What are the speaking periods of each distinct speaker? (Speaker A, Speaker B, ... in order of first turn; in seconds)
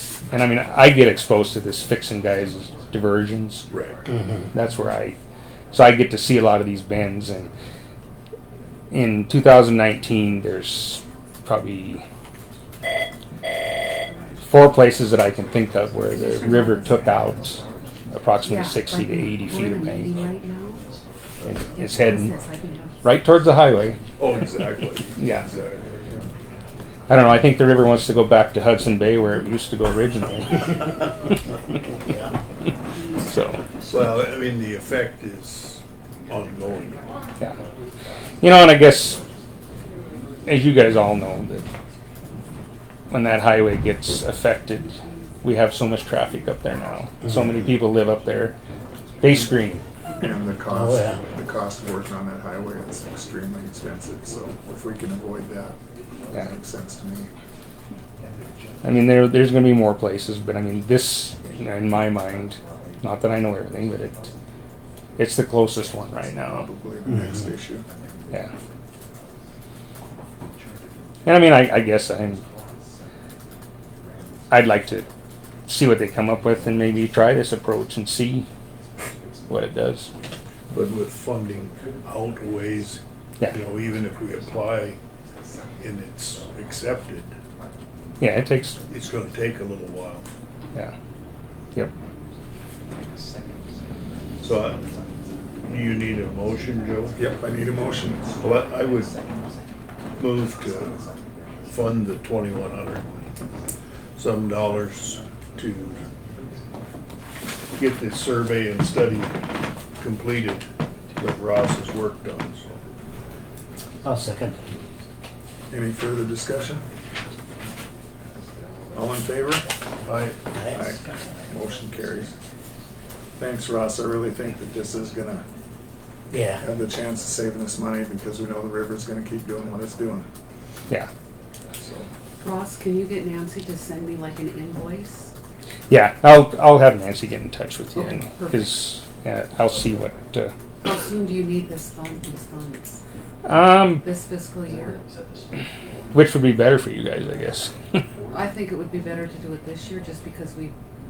Speaker A: 0.3-3.7, 4.5-5.2, 5.7-7.5, 8.9-12.0, 14.5-20.1, 21.5-22.4, 23.0-24.1, 25.2-25.5, 27.1-30.9, 33.1-33.6, 38.4-39.2, 40.5-41.7, 43.1-48.6, 49.2-49.8, 58.8-64.2, 65.2-66.7, 71.3-72.4, 74.5-75.1, 75.7-78.5, 79.5-80.1, 88.2-88.8, 135.9-140.5, 143.4-144.1, 146.1-147.7
Speaker B: 3.7-4.1, 24.2-26.0, 33.9-37.1, 80.7-85.0, 85.8-87.3, 88.9-90.3, 94.4-94.8, 95.7-97.2, 98.4-99.1, 100.2-101.1, 101.7-103.2, 104.2-106.0, 107.8-109.4, 110.0-112.7, 120.0-120.5
Speaker C: 16.3-17.0, 18.4-20.8, 21.7-23.1, 132.4-135.3, 138.0-138.8, 140.8-143.0, 144.0-145.0, 148.3-150.7
Speaker D: 50.2-55.8, 56.3-57.3, 66.5-67.9, 97.2-98.4, 115.7-116.9, 118.9-119.7, 120.7-122.3, 123.4-125.5, 126.6-130.3, 131.8-132.1
Speaker E: 50.7-51.2, 114.0-114.7, 120.5-121.1, 126.3-126.7